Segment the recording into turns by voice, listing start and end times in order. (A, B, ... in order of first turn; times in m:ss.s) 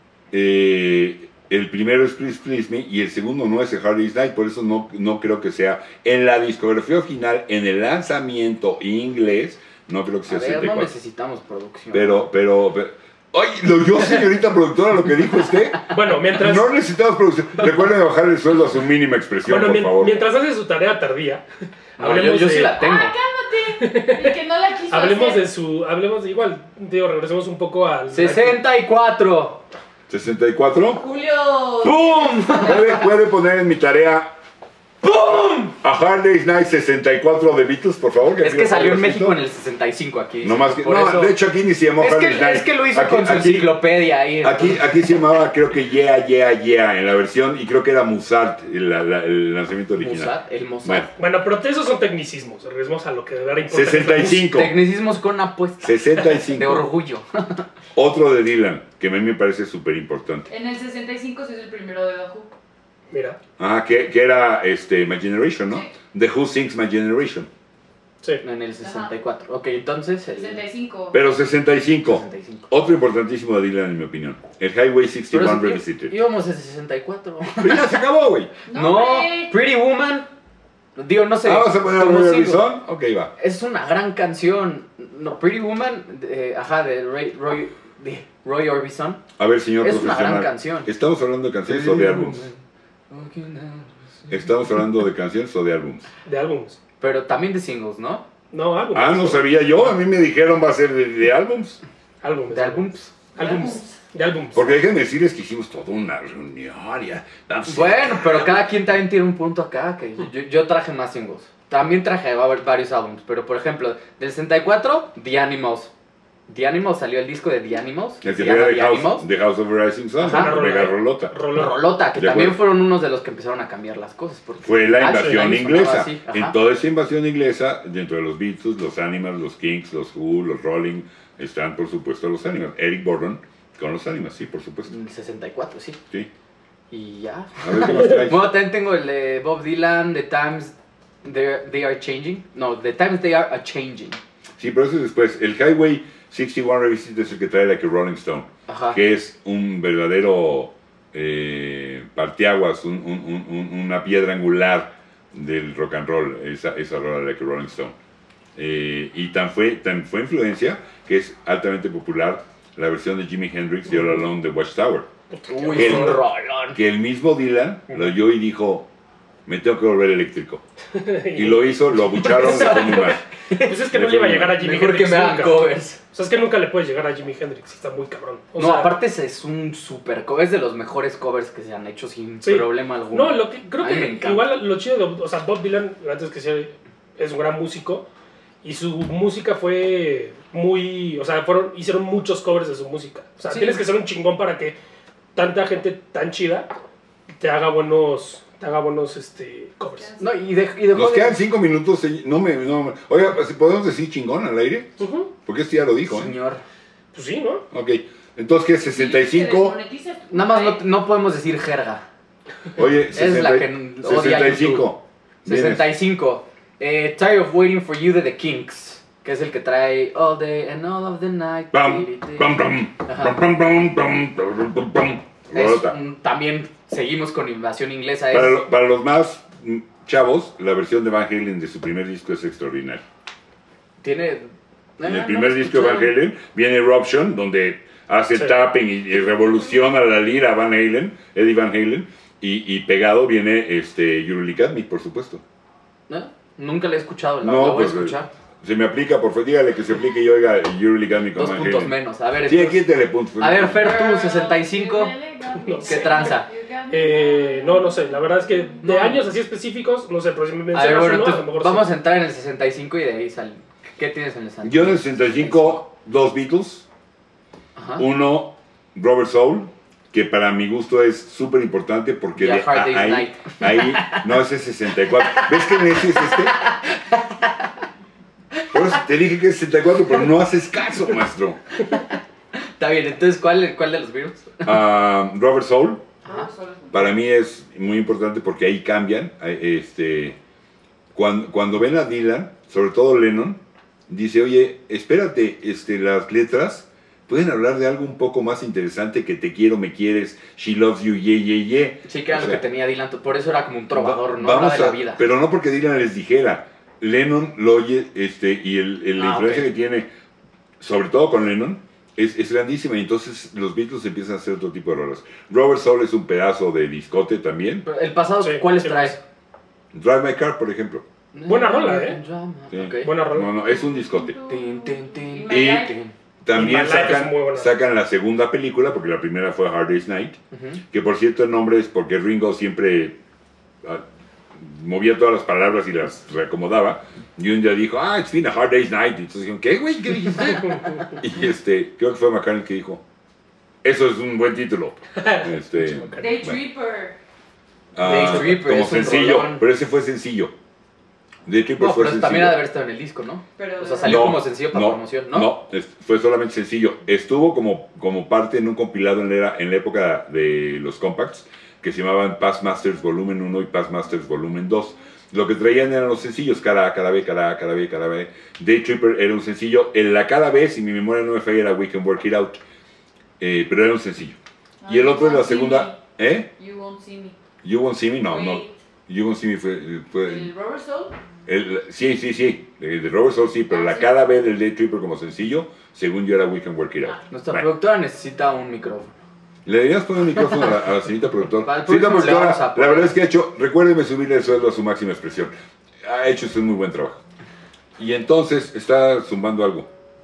0:00.3-0:10.9 A
0:10.3-0:12.2 B
0:11.9-0:20.2 A
0:15.9-0:16.7 C
0:19.4-0:21.4 C
0:22.0-0:22.8 C
0:22.0-0:23.2 B
0:22.7-0:25.4 D
0:23.8-0:24.4 C
0:24.9-0:28.6 C
0:28.1-0:29.6 B
0:30.1-0:31.0 A
0:30.9-0:33.0 D
0:31.8-0:32.9 B
0:32.5-0:34.3 A
0:35.0-0:35.8 B
0:35.8-0:39.4 A
0:38.4-0:41.4 B
0:40.4-0:43.8 A
0:42.0-0:44.8 B
0:44.4-0:51.1 A
0:50.0-0:51.1 B
0:51.2-0:54.4 C
0:53.7-0:54.8 A
0:54.2-0:57.6 B
0:55.8-0:56.9 A
0:58.0-1:00.5 A
1:00.5-1:02.5 D
1:03.1-1:03.4 C
1:03.6-1:07.5 A
1:08.4-1:10.6 B
1:08.8-1:09.1 D
1:10.3-1:11.2 D
1:11.1-1:16.1 A
1:12.1-1:12.7 B
1:15.3-1:18.0 B
1:17.6-1:18.5 A
1:18.7-1:19.6 D
1:18.7-1:20.3 B
1:21.0-1:22.7 B
1:21.4-1:23.3 A
1:23.4-1:29.2 B
1:29.4-1:32.5 A
1:29.8-1:30.9 B
1:31.7-1:34.4 B
1:34.3-1:36.1 A
1:36.2-1:36.8 C
1:37.0-1:38.3 B
1:38.5-1:39.5 C
1:38.9-1:41.8 A
1:42.2-1:44.7 C
1:42.5-1:43.2 B
1:43.4-1:44.0 D
1:44.5-1:48.7 A
1:47.6-1:55.9 B
1:56.5-1:59.3 B
1:58.2-2:01.3 A
2:00.2-2:00.6 B
2:00.3-2:01.8 C
2:01.5-2:06.6 B
2:02.2-2:02.6 A
2:04.6-2:14.9 A
2:05.1-2:05.4 C
2:14.9-2:16.0 B
2:16.9-2:24.2 B
2:17.6-2:18.6 A
2:24.6-2:38.0 A
2:28.7-2:29.0 B
2:38.6-2:45.1 A
2:45.3-2:46.2 C
2:45.5-2:46.8 B
2:45.7-2:48.9 A
2:49.5-2:50.6 A
2:50.9-2:59.0 C
2:51.3-2:53.2 A
2:52.2-2:53.8 B
2:53.9-2:54.6 A
2:54.6-2:56.0 B
2:58.6-3:04.5 B
3:02.4-3:08.1 C
3:08.6-3:14.8 C
3:13.5-3:13.8 B
3:15.4-3:16.7 C
3:17.4-3:20.1 C
3:20.0-3:20.3 D
3:20.2-3:21.4 B
3:20.9-3:26.3 A
3:25.0-3:25.3 C
3:26.0-3:26.6 B
3:27.1-3:27.6 C
3:27.7-3:29.8 A
3:28.9-3:30.8 D
3:30.3-3:32.0 B
3:32.8-3:36.0 A
3:33.1-3:34.9 B
3:35.4-3:43.4 B
3:41.7-3:46.0 A
3:45.5-3:48.6 B
3:48.3-3:53.0 A
3:54.0-3:56.1 B
3:55.0-4:05.4 A
4:06.1-4:08.3 B
4:07.4-4:14.0 A
4:11.4-4:12.8 B
4:13.4-4:15.2 B
4:13.6-4:18.9 D
4:15.6-4:21.9 C
4:15.8-4:16.5 B
4:18.8-4:19.2 B
4:20.7-4:25.8 B
4:24.6-4:26.9 A
4:27.8-4:28.0 B
4:28.0-4:36.6 A
4:32.4-4:34.3 B
4:35.3-4:37.5 B
4:38.7-4:41.6 A
4:42.8-4:44.8 B
4:44.6-4:46.1 A
4:46.2-4:47.1 D
4:46.9-4:50.4 A
4:51.1-5:02.6 A
5:02.1-5:05.2 B
5:03.9-5:10.1 A
5:09.2-5:09.7 B
5:10.8-5:17.8 A
5:17.8-5:19.2 B
5:18.4-5:19.2 C
5:19.9-5:21.0 A
5:21.3-5:23.2 B
5:21.5-5:22.2 C
5:22.7-5:24.4 A
5:23.0-5:23.5 C
5:23.6-5:26.0 D
5:24.5-5:26.1 B
5:25.5-5:25.9 A
5:26.4-5:30.4 A
5:26.5-5:27.7 C
5:30.5-5:30.8 B
5:30.9-5:33.2 A
5:33.8-5:43.0 A
5:43.8-5:46.6 A
5:45.2-5:46.4 C
5:46.2-5:47.2 D
5:48.0-5:50.5 A
5:48.0-5:49.6 B
5:51.5-5:52.6 A
5:51.8-5:55.5 B
5:53.6-5:54.4 D
5:54.0-6:12.6 A
6:13.4-6:16.5 A
6:14.8-6:16.0 D
6:16.6-6:17.4 D
6:17.6-6:20.5 A
6:18.2-6:18.8 D
6:20.2-6:21.2 D
6:21.5-6:27.7 A
6:23.7-6:24.1 D
6:27.3-6:29.2 B
6:29.6-6:37.2 A
6:31.6-6:33.2 B
6:38.0-6:39.9 A